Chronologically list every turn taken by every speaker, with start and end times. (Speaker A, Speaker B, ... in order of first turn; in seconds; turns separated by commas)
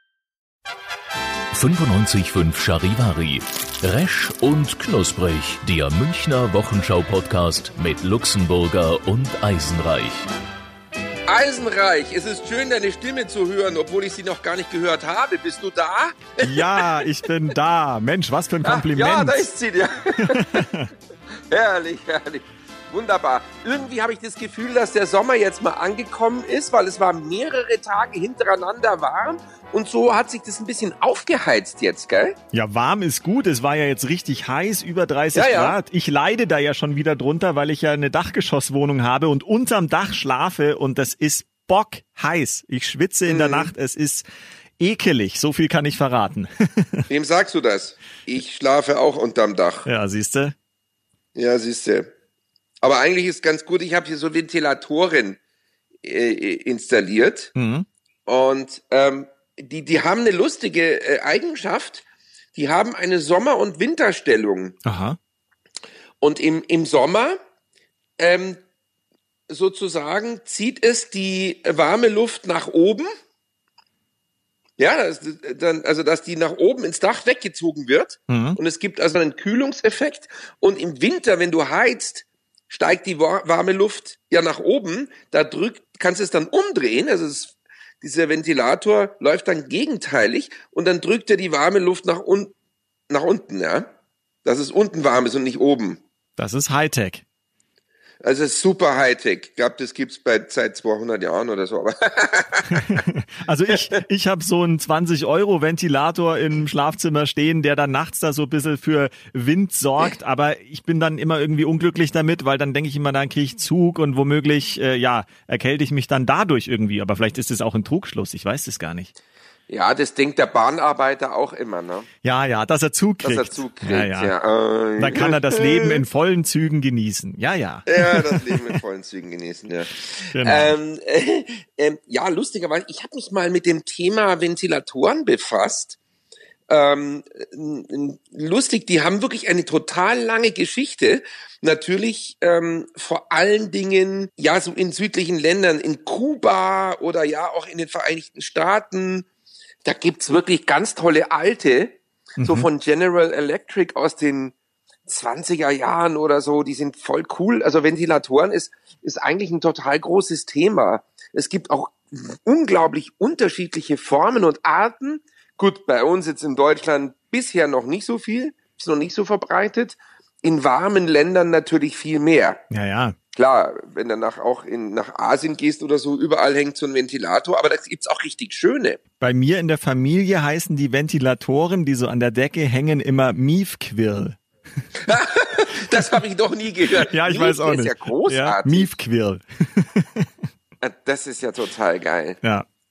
Speaker A: 1.5-10.3, Speaker B: 11.3-17.0, Speaker C: 16.4-19.5, Speaker B: 18.6-20.8, Speaker C: 20.2-20.9, Speaker B: 21.5-32.4, Speaker C: 32.5-44.2, Speaker B: 35.3-35.8, Speaker B: 43.3-43.7, Speaker C: 44.8-47.0, Speaker B: 47.1-49.9, Speaker C: 49.9-50.5, Speaker B: 51.4-52.1, Speaker B: 52.8-55.4, Speaker B: 56.0-57.5, Speaker C: 57.5-57.9, Speaker B: 58.3-62.0, Speaker B: 62.5-64.8, Speaker C: 64.8-65.2, Speaker B: 66.2-67.4, Speaker B: 68.2-68.6, Speaker B: 69.5-73.1, Speaker B: 74.8-92.5, Speaker C: 78.3-78.6, Speaker B: 93.1-93.9, Speaker B: 94.4-96.0, Speaker C: 96.4-97.2, Speaker B: 98.2-103.0, Speaker C: 102.7-119.1, Speaker B: 103.7-104.0, Speaker B: 119.7-122.1, Speaker C: 122.2-124.3, Speaker B: 123.2-126.0, Speaker C: 125.0-128.8, Speaker B: 127.9-136.0, Speaker C: 130.3-130.8, Speaker B: 136.7-149.3, Speaker B: 149.8-154.5, Speaker C: 152.4-152.7, Speaker B: 155.1-172.6, Speaker C: 172.7-173.2, Speaker B: 173.3-179.0, Speaker C: 179.2-184.4, Speaker B: 185.0-188.9, Speaker C: 187.1-190.3, Speaker B: 190.8-192.4